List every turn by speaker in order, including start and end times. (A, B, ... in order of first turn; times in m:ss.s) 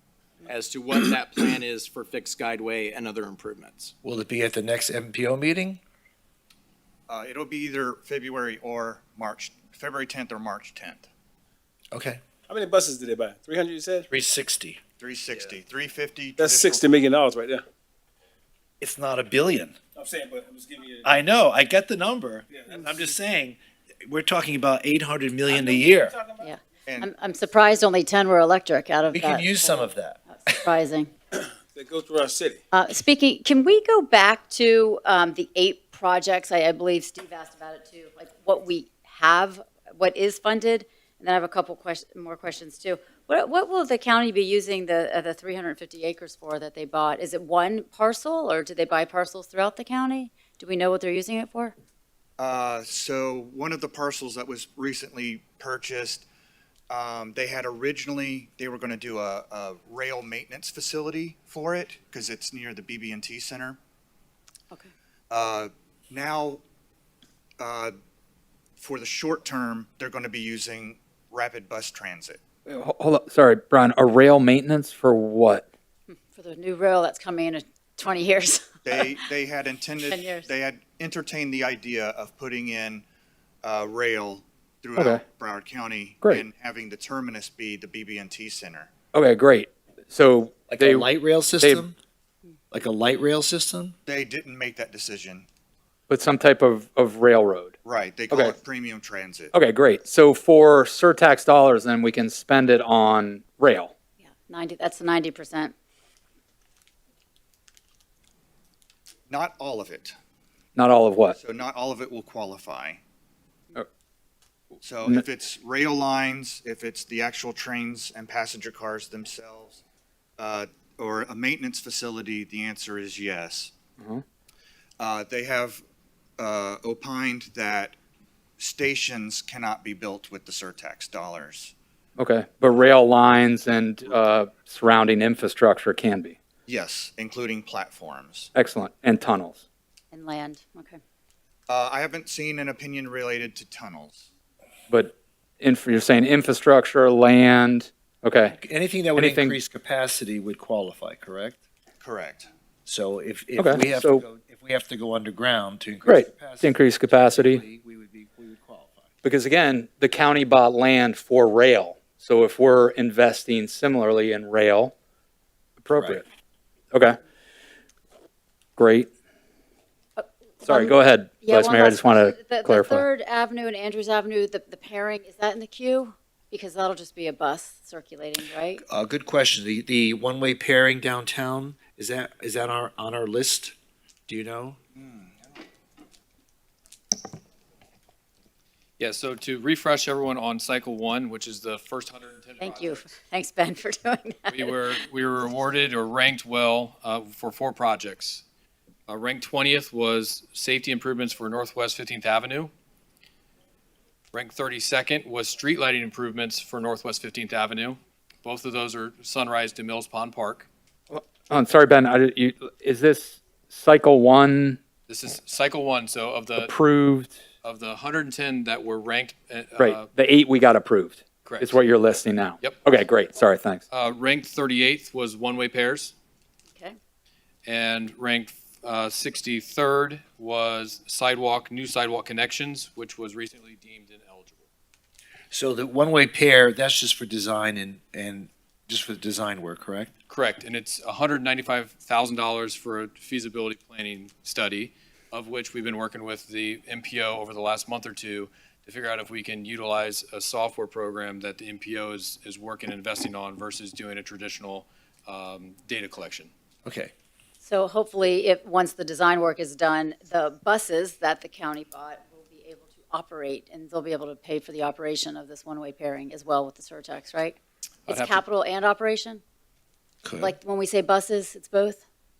0:00.5-0:03.9 A
0:04.0-0:05.8 B
0:07.1-0:11.1 C
0:11.9-0:12.2 B
0:12.5-0:14.1 D
0:14.1-0:14.8 B
0:15.0-0:16.9 C
0:16.4-0:17.6 D
0:18.8-0:19.8 B
0:20.0-0:21.1 D
0:21.0-0:26.2 B
0:22.5-0:23.1 D
0:26.4-0:31.1 E
0:29.1-0:30.6 B
0:31.8-0:32.6 D
0:32.7-0:51.8 E
0:52.4-0:56.3 C
0:56.9-1:03.8 C
1:05.3-1:06.6 C
1:07.6-1:08.0 C
1:08.8-1:12.4 C
1:12.7-1:15.7 F
1:16.1-1:19.2 E
1:18.8-1:23.0 C
1:20.0-1:20.5 E
1:23.6-1:28.9 C
1:25.0-1:25.2 F
1:29.1-1:31.1 F
1:30.7-1:32.0 B
1:31.6-1:31.8 F
1:32.7-1:33.9 B
1:34.1-1:35.5 C
1:36.1-1:37.7 F
1:37.8-1:39.5 C
1:38.3-1:38.6 F
1:39.5-1:43.9 F
1:44.2-1:45.7 E
1:49.3-1:50.2 C
1:50.8-1:51.4 F
1:51.4-1:53.0 C
1:54.8-1:59.8 C
2:00.4-2:03.7 C
2:05.0-2:05.8 C
2:06.4-2:08.0 C
2:08.6-2:11.7 C
2:12.2-2:16.4 F
2:16.7-2:18.5 C
2:18.5-2:19.6 F
2:20.1-2:21.0 E
2:21.7-2:24.3 C
2:24.9-2:28.6 F
2:28.5-2:31.6 B
2:29.2-2:29.6 F
2:32.0-2:32.5 C
2:32.9-2:39.1 B
2:33.6-2:34.2 F
2:36.0-2:37.6 F
2:39.2-2:44.9 F
2:45.8-2:46.2 F
2:45.9-2:46.2 B
2:46.9-2:47.2 F
2:48.8-2:49.1 F
2:50.2-2:58.8 E
2:50.6-2:53.0 F
2:58.8-3:03.8 B
3:04.3-3:04.8 B
3:05.0-3:05.4 C
3:09.0-3:13.0 G
3:12.6-3:14.9 E
3:14.5-3:18.4 G
3:19.1-3:22.7 G
3:24.3-3:30.7 G
3:31.1-3:34.8 F
3:35.1-3:36.7 G
3:36.6-3:37.4 F
3:37.6-3:40.1 G
3:39.8-3:43.8 F
3:41.4-3:41.8 G
3:43.9-3:46.1 G
3:47.6-3:54.6 G
3:55.5-4:00.1 B
4:00.3-4:16.5 G
4:16.8-4:17.1 B
4:17.6-4:29.4 E
4:28.1-4:28.4 G
4:30.2-4:30.6 B
4:30.4-4:32.0 E